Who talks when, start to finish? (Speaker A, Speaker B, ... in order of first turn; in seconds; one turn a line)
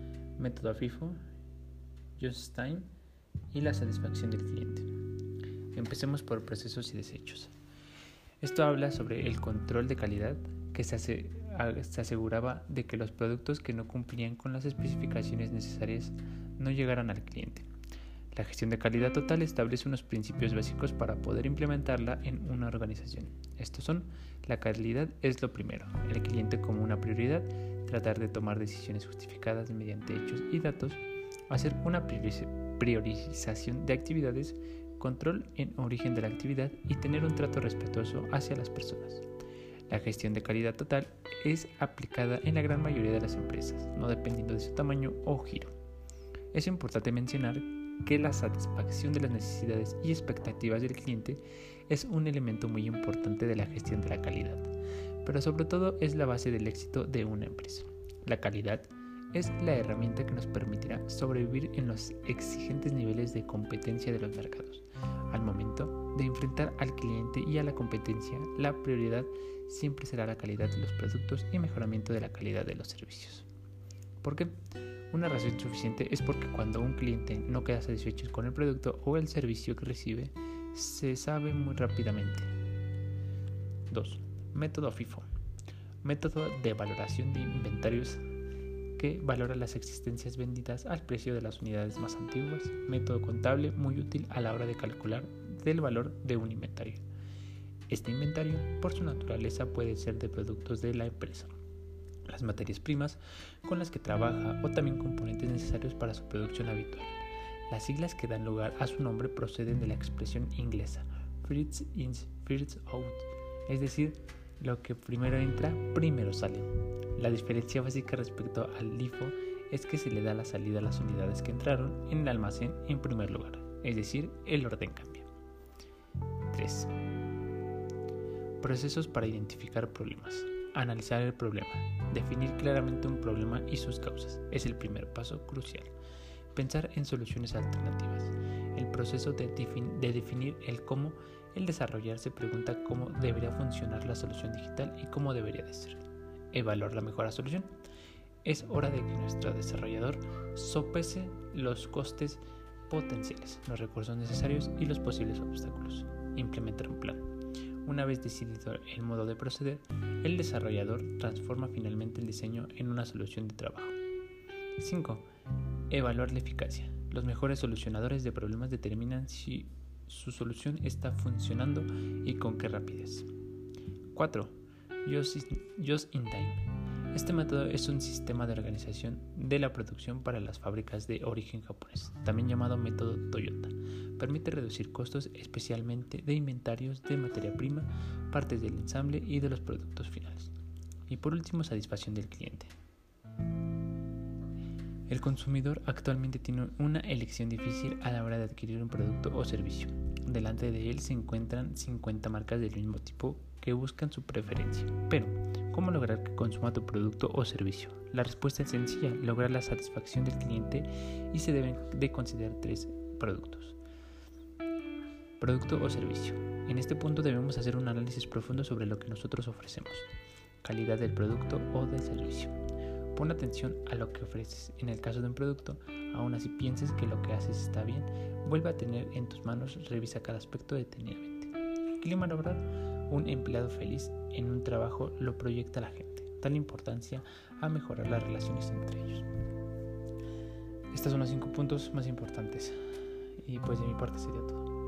Speaker A: 0.4-1.2
Speaker A: 2.2-2.9
Speaker A: 3.5-4.9
Speaker A: 5.7-7.5
Speaker A: 8.4-17.7
Speaker A: 18.3-39.2
Speaker A: 39.9-45.7
Speaker A: 46.5-54.7
Speaker A: 55.2-73.5
Speaker A: 74.2-74.5
Speaker A: 75.1-82.5
Speaker A: 83.9-85.3
Speaker A: 86.0-88.2
Speaker A: 89.0-97.0
Speaker A: 97.9-101.5
Speaker A: 102.3-125.3
Speaker A: 126.5-126.9
Speaker A: 128.6-135.9
Speaker A: 136.5-146.0
Speaker A: 146.5-147.7
Speaker A: 148.4-157.3
Speaker A: 157.8-164.0
Speaker A: 164.8-165.3
Speaker A: 165.9-173.3
Speaker A: 174.1-174.5
Speaker A: 175.1-190.5
Speaker A: 191.1-192.7
Speaker A: 195.1-213.8
Speaker A: 215.4-220.1
Speaker A: 220.6-222.5
Speaker A: 223.2-239.3
Speaker A: 240.9-242.8
Speaker A: 243.4-244.7